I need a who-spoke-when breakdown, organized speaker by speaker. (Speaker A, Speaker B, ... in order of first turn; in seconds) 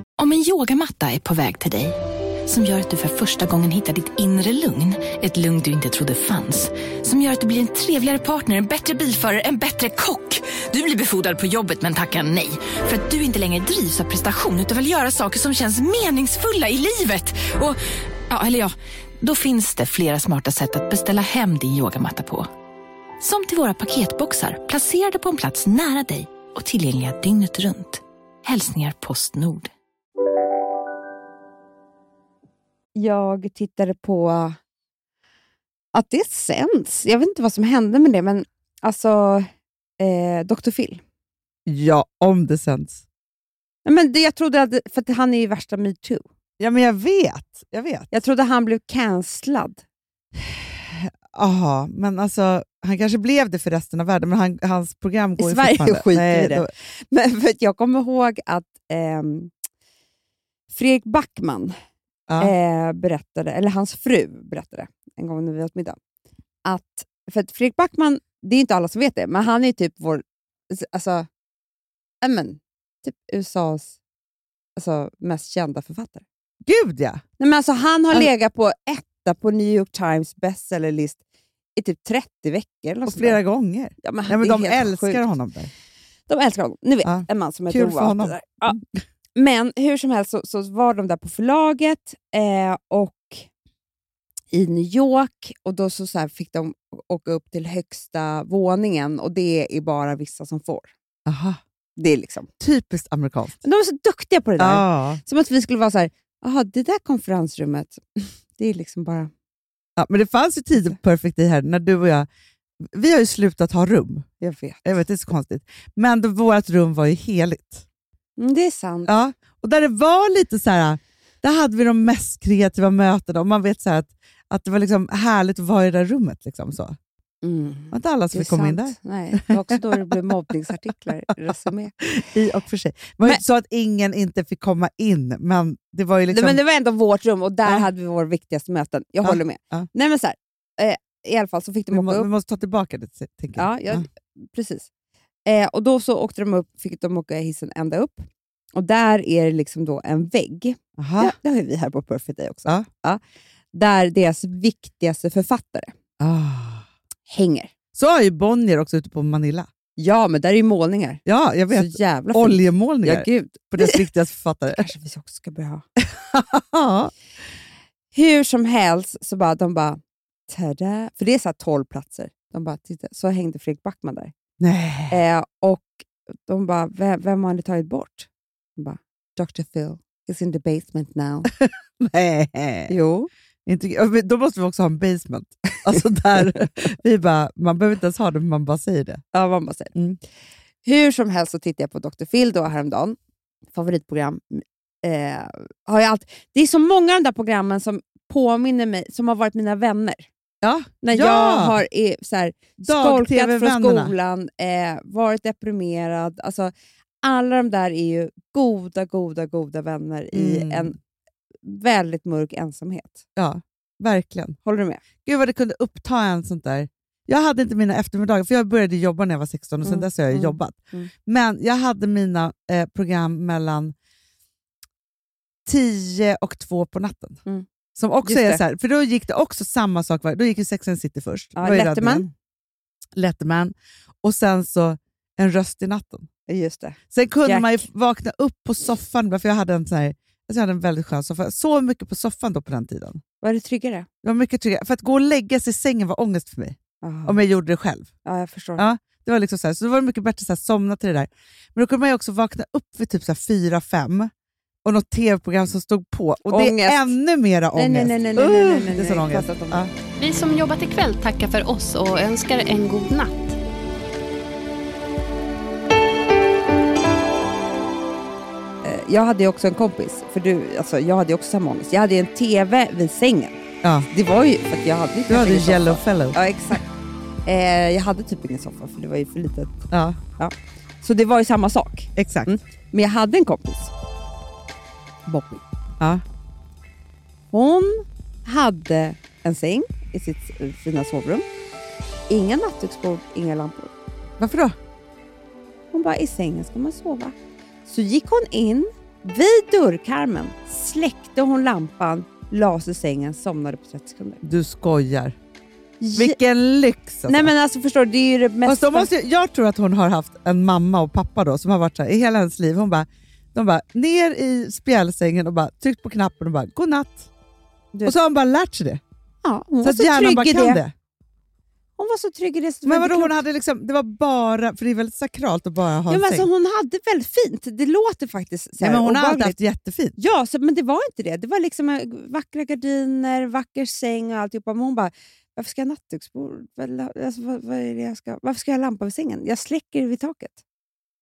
Speaker A: 0.2-1.9, 2.5-17.8, 18.3-22.5, 23.2-29.7
Speaker B: 32.9-34.6, 35.9-39.5, 40.0-41.0, 43.8-46.2, 48.1-49.8, 55.4-59.5, 60.7-61.7, 62.4-66.0, 66.7-71.3, 72.2-73.9, 74.8-76.2, 77.4-81.2, 81.8-83.4, 84.0-85.2, 86.3-88.8, 89.3-93.5, 94.5-100.9, 102.0-102.5, 103.6-109.3, 114.4-115.0, 118.4-119.1, 127.4-131.9, 136.3-142.3, 143.6-144.9, 145.4-153.2, 153.7-155.9, 157.3-157.7, 160.0-164.0, 164.7-165.8, 168.1-174.3, 175.1-181.5, 182.9-183.3, 189.3-189.9, 190.8-193.2, 193.7-200.2, 201.0-206.7, 207.2-211.0, 211.6-213.2, 214.6-215.0, 219.8-221.1, 228.2-228.6, 231.6-232.3, 236.5-237.8, 243.4-244.1, 247.0-247.4, 248.2-248.8, 256.4-257.1, 257.7-259.8, 268.8-273.6, 274.1-276.9, 277.4-279.7, 280.4-283.9, 285.3-285.6, 287.5-291.4, 292.3-293.9, 295.9-304.4, 306.0-306.4, 307.3-309.1, 319.4-320.8, 322.0-323.4, 326.1-329.6, 330.2-340.6
Speaker C: 41.6-43.0, 46.6-48.1, 50.4-56.7, 62.3-62.5, 76.6-77.2, 83.1-85.7, 87.0-88.8, 101.2-101.6, 102.6-103.6, 104.6-105.2, 110.0-112.3, 112.8-114.3, 114.8-117.8, 119.1-127.0, 127.9-130.2, 132.0-136.6, 139.2-139.9, 141.9-144.1, 151.0-151.3, 156.2-156.8, 157.9-159.7, 161.2-164.9, 166.0-167.1, 174.6-175.2, 181.5-182.9, 183.7-189.2, 200.6-201.8, 202.8-204.1, 210.3-210.9, 213.3-214.6, 215.2-223.9, 225.6-227.4, 227.9-232.3, 233.2-236.3, 237.1-243.2, 244.2-248.1, 248.8-254.3, 254.8-259.9, 273.8-274.1, 275.3-276.8, 279.9-280.2, 282.1-282.6, 294.4-294.8, 304.4-305.4, 306.1-307.5, 308.6-317.3, 318.0-319.0, 319.8-320.9, 322.8-326.5, 328.8-330.2
Speaker D: 260.2-263.6